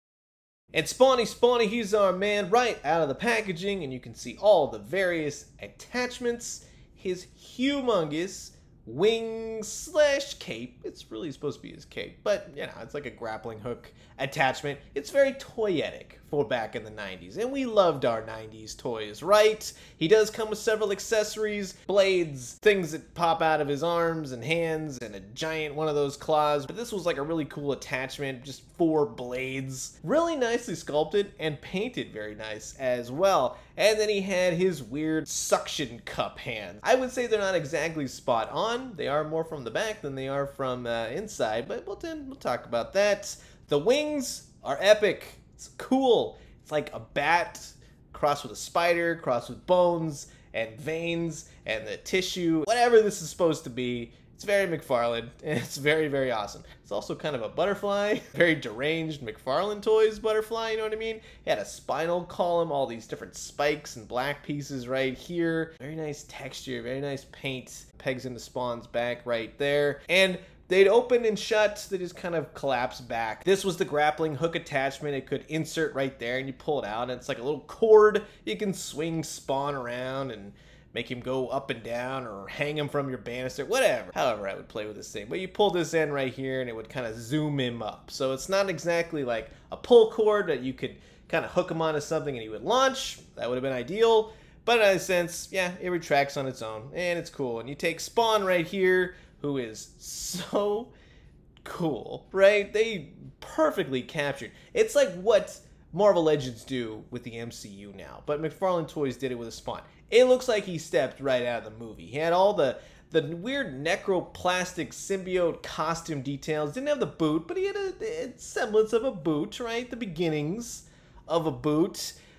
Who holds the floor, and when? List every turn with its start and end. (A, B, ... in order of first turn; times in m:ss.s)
0:00.7-1:40.9 A
1:41.6-2:02.2 A